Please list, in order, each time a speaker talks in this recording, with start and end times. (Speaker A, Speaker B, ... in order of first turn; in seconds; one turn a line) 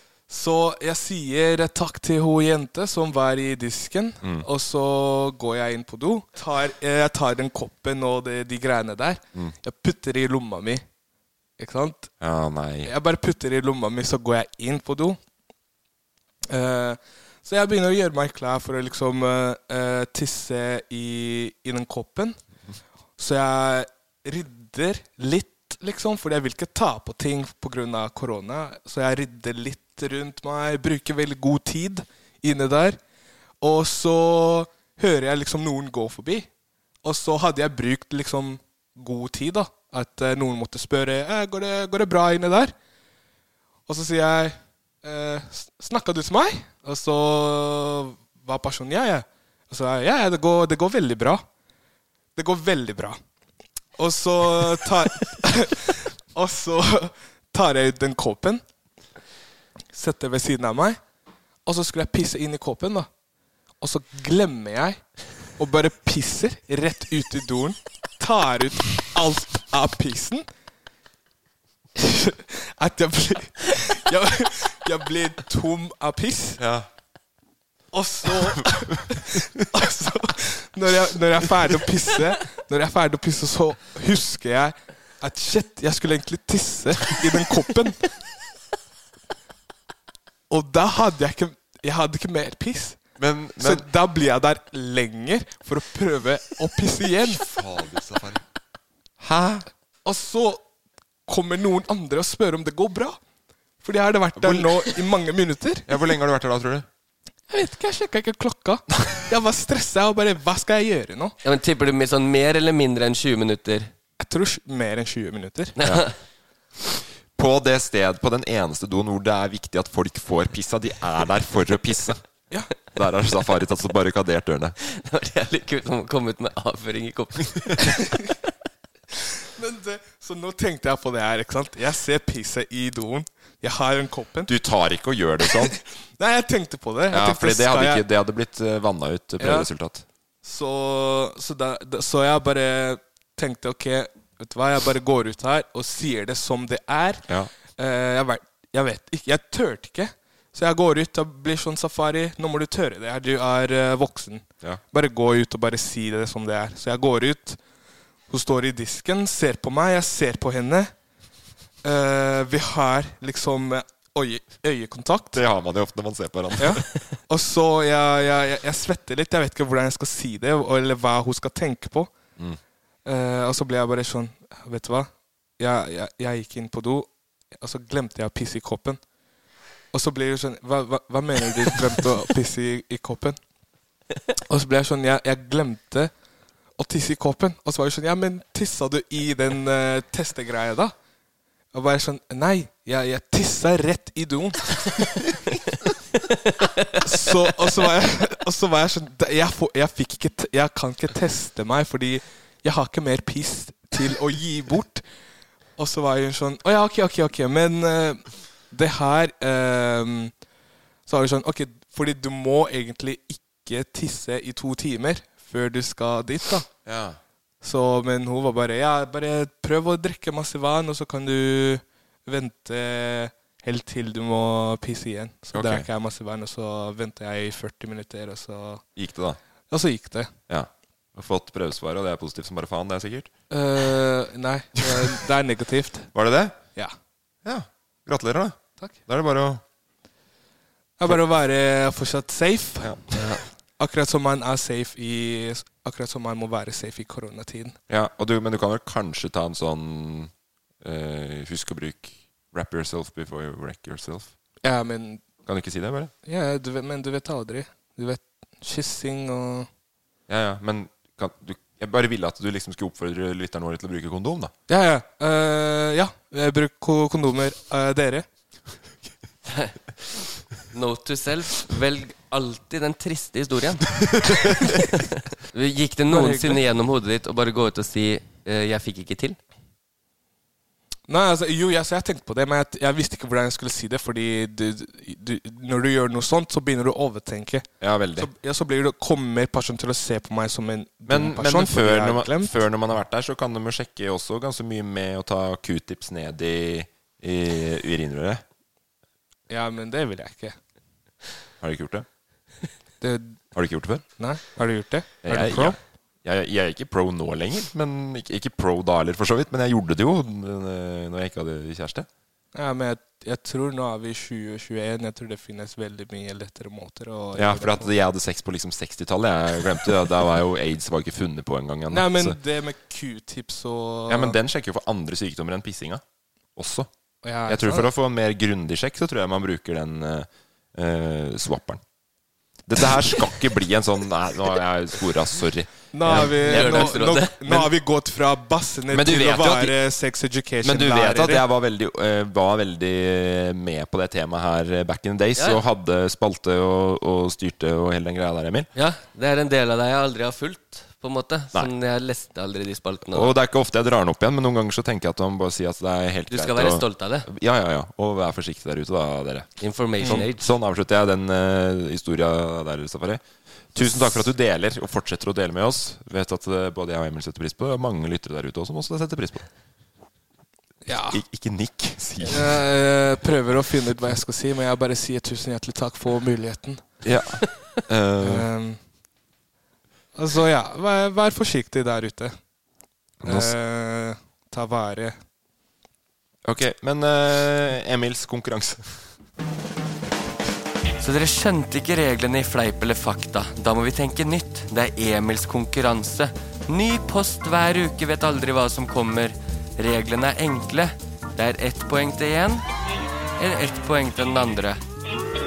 Speaker A: 0.3-10.8
Speaker B: 4.2-4.5
Speaker A: 11.6-12.1
Speaker B: 12.2-12.9
Speaker A: 12.8-15.2
Speaker A: 16.5-22.4
Speaker A: 23.2-33.0
Speaker A: 33.6-36.5
Speaker A: 37.0-42.7
Speaker A: 43.9-51.4
Speaker A: 52.4-53.2
Speaker A: 54.0-58.6
Speaker A: 59.9-61.0
Speaker A: 61.6-63.1
Speaker A: 63.8-65.0
Speaker A: 65.6-70.5
Speaker A: 72.0-76.6
Speaker B: 76.6-76.8
Speaker A: 77.9-88.0
Speaker A: 90.5-93.0
Speaker B: 93.2-93.8
Speaker A: 93.6-97.5
Speaker B: 97.3-98.4
Speaker B: 99.2-99.7
Speaker A: 100.0-100.6
Speaker A: 101.3-103.2
Speaker A: 103.8-105.9
Speaker B: 104.4-104.8
Speaker B: 105.9-106.8
Speaker A: 107.5-111.3
Speaker C: 111.4-113.9
Speaker A: 114.2-115.8
Speaker C: 115.8-116.1
Speaker B: 117.4-122.2
Speaker B: 122.9-124.8
Speaker C: 124.8-127.8
Speaker A: 127.9-128.3
Speaker A: 129.6-134.5
Speaker B: 134.5-135.8
Speaker A: 135.7-138.0
Speaker B: 137.1-140.0
Speaker A: 139.4-139.7
Speaker A: 140.4-157.6
Speaker A: 158.3-160.9
Speaker A: 161.8-165.4
Speaker B: 165.3-166.9
Speaker A: 166.6-172.1
Speaker A: 173.0-179.0
Speaker A: 179.9-183.4
Speaker A: 184.5-186.1
Speaker A: 186.8-190.9
Speaker A: 191.7-194.7
Speaker C: 196.3-197.0
Speaker A: 197.0-205.0
Speaker A: 205.8-210.3
Speaker A: 211.1-216.7
Speaker B: 216.8-217.2
Speaker A: 217.6-228.8
Speaker B: 225.5-225.9
Speaker B: 228.9-229.4
Speaker A: 229.7-230.3
Speaker B: 230.5-233.3
Speaker A: 233.5-236.1
Speaker B: 236.1-236.6
Speaker B: 237.4-239.6
Speaker A: 241.0-242.9
Speaker A: 243.8-247.8
Speaker B: 247.9-250.3
Speaker B: 250.8-254.3
Speaker A: 254.6-255.2
Speaker B: 255.4-256.1
Speaker A: 256.2-259.7
Speaker B: 260.3-264.5
Speaker A: 264.7-268.2
Speaker C: 269.4-269.8
Speaker C: 270.7-273.9
Speaker C: 274.6-279.4
Speaker A: 276.1-276.6
Speaker A: 281.1-292.5
Speaker B: 287.8-288.3
Speaker B: 291.1-298.4
Speaker A: 299.5-300.6
Speaker B: 301.6-302.1
Speaker A: 303.0-303.4
Speaker B: 303.5-304.0
Speaker A: 304.1-305.8
Speaker B: 305.2-312.1
Speaker A: 312.5-317.9
Speaker B: 317.3-322.4
Speaker A: 321.9-324.4
Speaker B: 324.1-326.0
Speaker B: 326.6-326.9
Speaker A: 327.2-327.9
Speaker B: 327.5-331.8
Speaker B: 332.7-337.7
Speaker A: 335.9-341.4
Speaker C: 336.1-337.4
Speaker B: 338.9-339.8
Speaker B: 340.6-348.7
Speaker C: 348.7-353.3
Speaker B: 353.1-359.5
Speaker C: 356.3-357.3
Speaker C: 359.6-360.4
Speaker B: 360.0-363.2
Speaker B: 363.7-369.4
Speaker A: 370.9-371.2
Speaker B: 371.1-372.6
Speaker A: 372.2-376.8
Speaker B: 377.0-378.5
Speaker A: 378.2-378.8
Speaker A: 380.1-382.4
Speaker B: 383.2-383.5
Speaker A: 383.2-385.2
Speaker B: 386.4-389.0
Speaker C: 391.0-402.6
Speaker C: 403.4-404.8